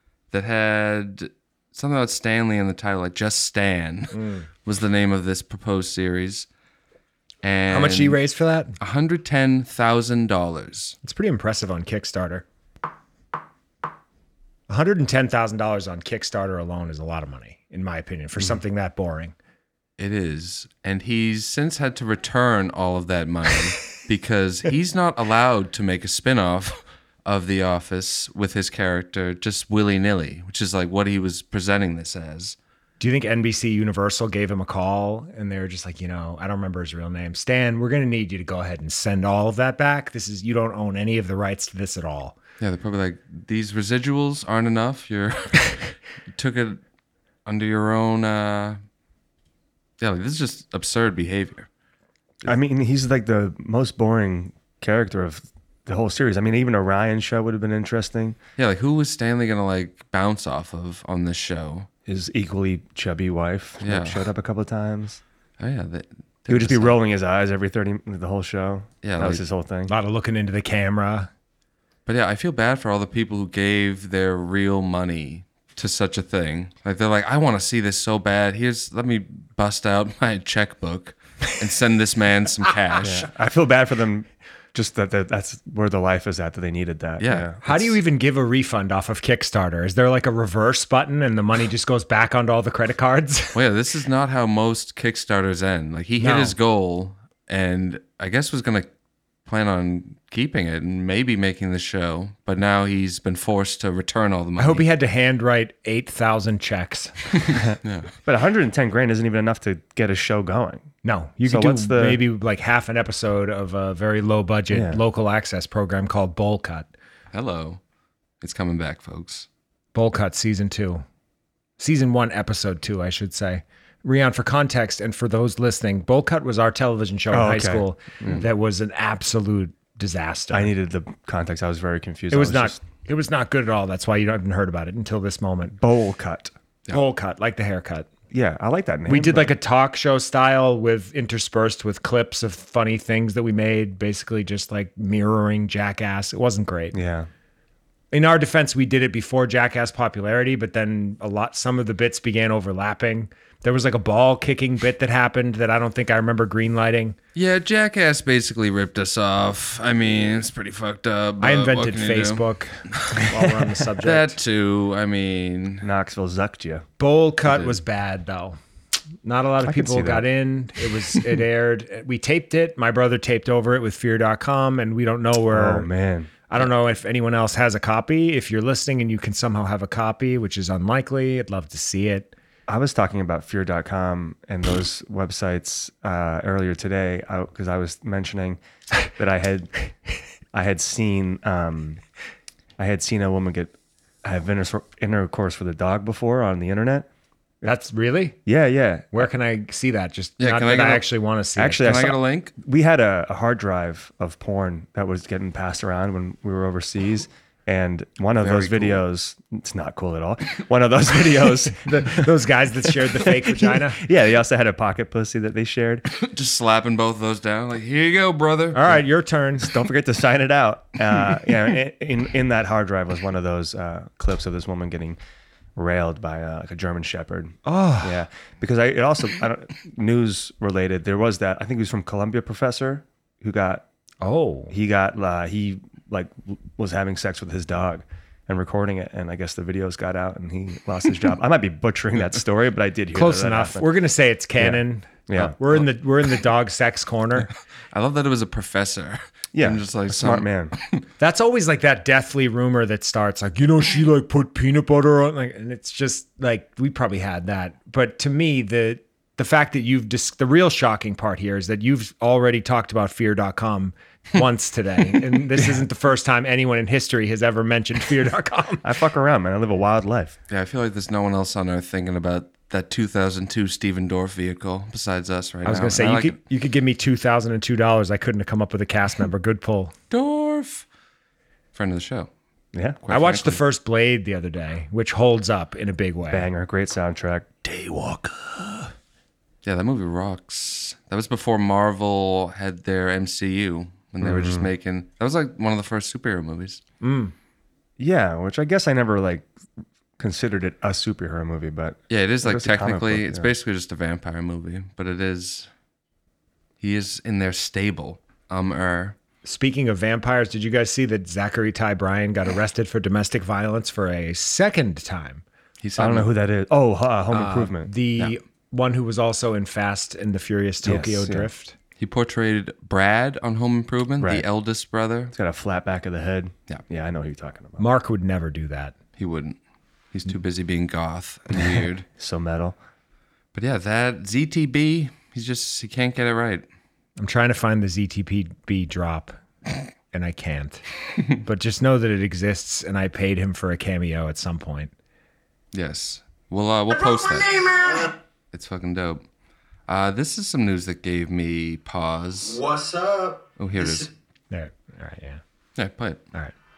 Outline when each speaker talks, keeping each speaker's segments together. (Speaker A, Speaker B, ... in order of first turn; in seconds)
Speaker A: 0.3-6.5, 7.4-8.2, 8.8-10.9, 20.0-32.6, 42.6-45.8, 46.3-46.8, 47.5-48.8, 50.0-51.7, 58.6-61.9, 63.8-64.2, 65.6-67.0, 69.0-69.4, 72.0-83.2, 87.2-87.5, 93.5-98.9, 99.5-104.8, 107.3-108.1, 117.3-117.8, 118.4-119.5, 157.3-163.2, 164.0-165.9, 200.4-201.1, 201.8-202.5, 208.4-209.0, 216.2-218.9, 247.9-251.0, 270.5-276.4, 280.1-280.9, 281.7-282.3, 283.0-283.6, 287.6-288.9, 289.6-296.8, 302.1-305.7, 306.8-309.1, 315.8-316.3, 322.0-325.3, 329.2-329.6, 330.1-332.0, 333.5-336.6, 345.7-347.7, 348.5-349.2, 349.9-352.6, 353.6-354.1, 355.8-356.2
Speaker B: 4.1-4.5, 7.7-8.7, 11.0-12.4, 14.7-19.3, 33.0-42.3, 69.9-71.3, 87.6-93.6, 96.2-96.5, 104.6-107.1, 111.0-116.9, 119.9-121.0, 121.8-130.7, 132.3-135.8, 136.9-138.1, 139.1-147.0, 148.1-157.2, 161.4-164.4, 167.0-168.6, 169.2-175.9, 176.5-182.3, 197.6-198.4, 199.1-202.0, 211.8-214.0, 218.7-219.7, 227.6-228.2, 234.2-234.7, 243.1-247.5, 251.2-268.8, 275.6-279.9, 283.1-286.5, 297.0-297.3, 309.4-315.4, 317.3-321.7, 327.8-328.9, 337.2-339.4, 340.1-340.8, 341.3-344.9, 354.5-355.4
Speaker C: 52.4-58.4, 62.0-65.2, 66.5-69.9, 83.0-87.9, 107.6-110.9, 111.4-112.2, 114.7-115.0, 127.3-128.4, 130.5-132.8, 135.8-136.5, 138.3-139.5, 146.9-147.3, 165.8-166.8, 169.6-170.3, 175.5-176.3, 182.7-189.7, 190.5-192.0, 192.8-197.1, 198.4-199.3, 201.6-212.4, 213.1-216.1, 219.6-225.2, 225.8-233.8, 234.7-244.0, 244.6-245.6, 249.5-250.7, 268.8-270.4, 282.7-283.0, 286.3-287.6, 294.2-294.7, 298.0-299.5, 300.2-303.5, 316.0-317.9, 320.8-321.5, 324.2-324.4, 325.3-327.8, 331.7-332.8
Speaker D: 346.9-348.1, 352.4-354.1